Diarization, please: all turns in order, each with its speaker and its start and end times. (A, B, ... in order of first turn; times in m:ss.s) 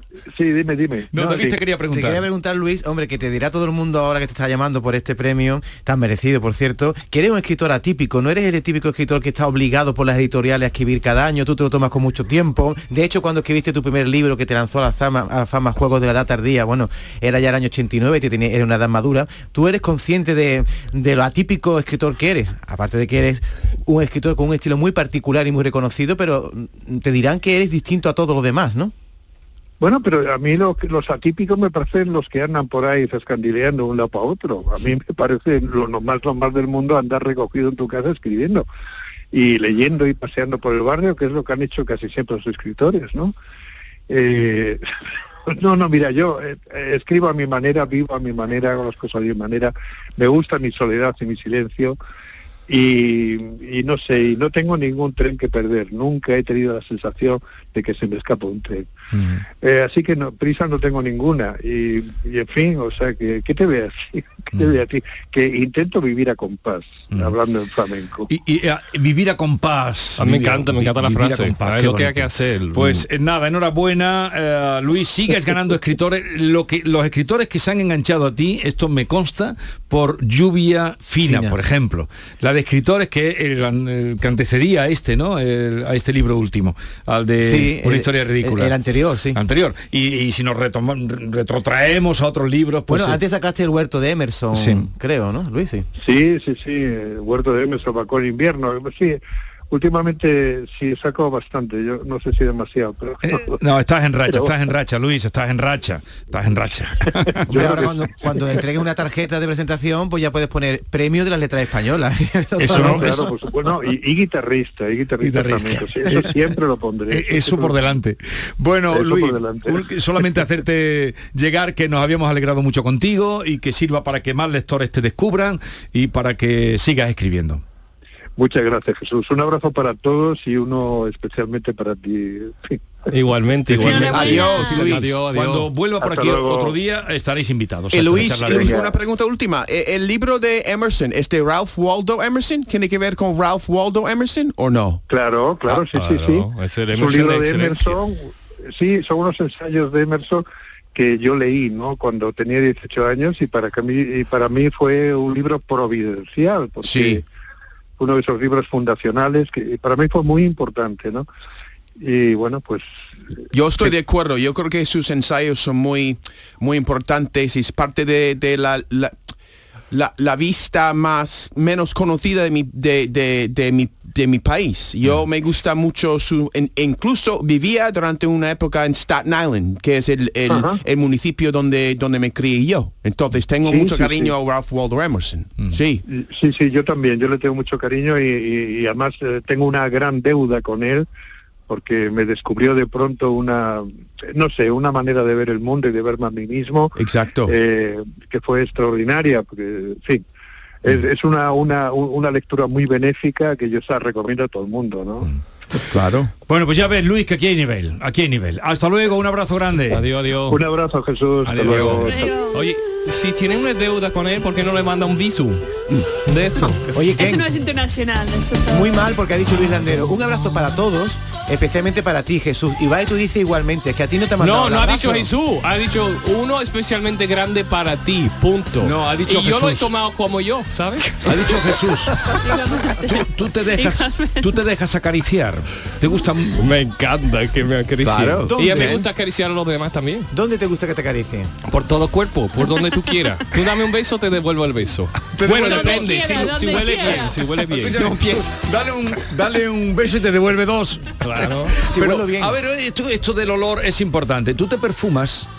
0:00.3-0:01.5 A
0:01.1-0:02.2 B
0:01.2-0:28.9 C
0:29.8-0:38.6 A
0:39.3-0:43.3 A
0:44.1-0:44.8 A
0:45.5-0:52.0 A
0:52.7-0:58.9 A
0:59.1-0:59.4 B
0:59.6-1:08.3 A
1:08.3-1:28.7 B
1:10.2-1:13.0 D
1:21.2-1:21.6 C
1:27.4-1:29.4 C
1:29.3-1:33.2 B
1:32.9-1:35.9 C
1:34.5-1:34.8 B
1:36.0-1:39.2 A
1:39.7-1:43.6 A
1:43.2-1:47.9 B
1:44.3-1:44.5 A
1:47.5-1:53.3 C
1:47.5-1:47.9 A
1:52.6-1:53.3 B
1:52.7-1:57.9 A
1:55.2-1:56.4 B
1:57.1-2:07.6 B
1:58.9-1:59.8 A
2:08.4-2:12.8 A
2:13.1-2:15.7 D
2:13.8-2:18.8 B
2:13.8-2:14.9 E
2:13.8-2:15.1 F
2:16.0-2:16.8 A
2:17.9-2:25.0 F
2:18.4-2:18.9 A
2:25.1-2:37.2 A
2:25.7-2:28.0 D
2:36.8-2:37.2 F
2:38.0-2:41.2 A
2:42.0-2:42.9 A
2:43.5-2:49.1 F
2:49.9-3:06.0 F
3:00.5-3:00.8 A
3:03.6-3:04.3 A
3:06.1-3:11.1 A
3:11.7-3:16.9 A
3:17.0-3:17.5 F
3:17.4-3:20.2 A
3:20.8-3:25.3 A
3:25.9-3:26.3 F
3:26.5-3:30.0 B
3:29.9-3:30.6 D
3:30.5-3:32.3 A
3:31.4-3:32.2 B
3:31.7-3:35.6 D
3:32.0-3:32.6 E
3:36.2-3:36.8 D
3:36.9-3:37.4 C
3:37.2-3:39.0 E
3:38.7-3:45.3 C
3:44.4-3:51.2 D
3:48.8-3:49.9 B
3:51.2-3:52.2 B
3:52.4-3:54.6 E
3:53.0-3:56.6 B
3:56.6-4:00.3 D
3:58.0-3:59.0 F
3:58.5-3:59.0 C
4:00.3-4:01.5 C
4:01.6-4:08.1 D
4:05.3-4:07.0 B
4:05.5-4:07.4 E
4:07.7-4:11.1 B
4:08.0-4:08.4 F
4:11.2-4:11.8 D
4:11.8-4:15.5 B
4:11.8-4:12.6 C